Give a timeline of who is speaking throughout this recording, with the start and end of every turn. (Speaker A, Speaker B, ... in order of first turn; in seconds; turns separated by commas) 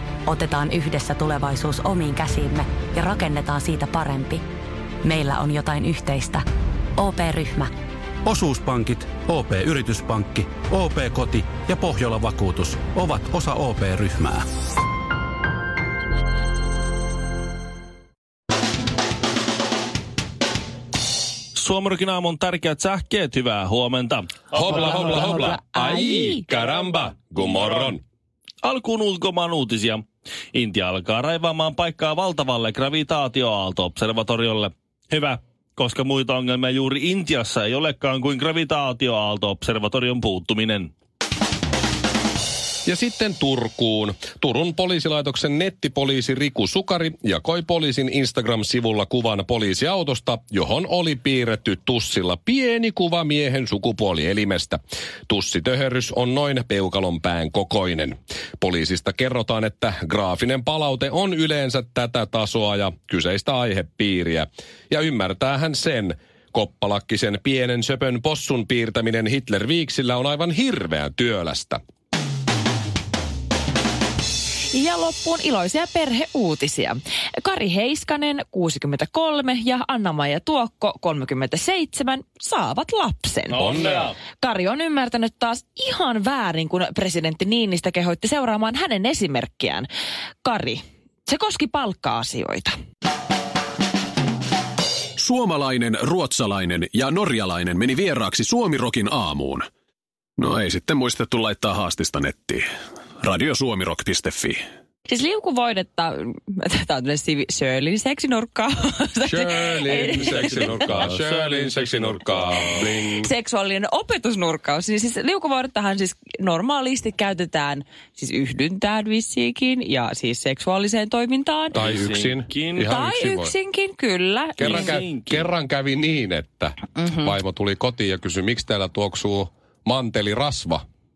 Speaker A: 0.3-4.4, Speaker A: 5.0-6.4, Speaker A: 7.0-7.7, Speaker B: 8.3-14.4, Speaker C: 21.5-25.5, Speaker D: 24.5-28.0, Speaker E: 24.7-26.5, Speaker C: 27.4-27.9, Speaker C: 28.6-30.0, Speaker C: 30.5-40.9, Speaker D: 42.9-71.8, Speaker E: 74.7-89.9, Speaker C: 83.5-84.2, Speaker D: 83.5-84.1, Speaker E: 90.4-92.7, Speaker F: 95.2-99.7, Speaker F: 100.4-102.7, Speaker F: 103.2-104.6, Speaker E: 105.1-111.0, Speaker D: 109.2-113.3, Speaker C: 109.9-112.8, Speaker E: 113.0-121.8, Speaker D: 121.7-123.5, Speaker C: 121.7-122.9, Speaker E: 122.8-125.0, Speaker D: 124.6-130.8, Speaker C: 124.6-125.5, Speaker E: 127.0-127.3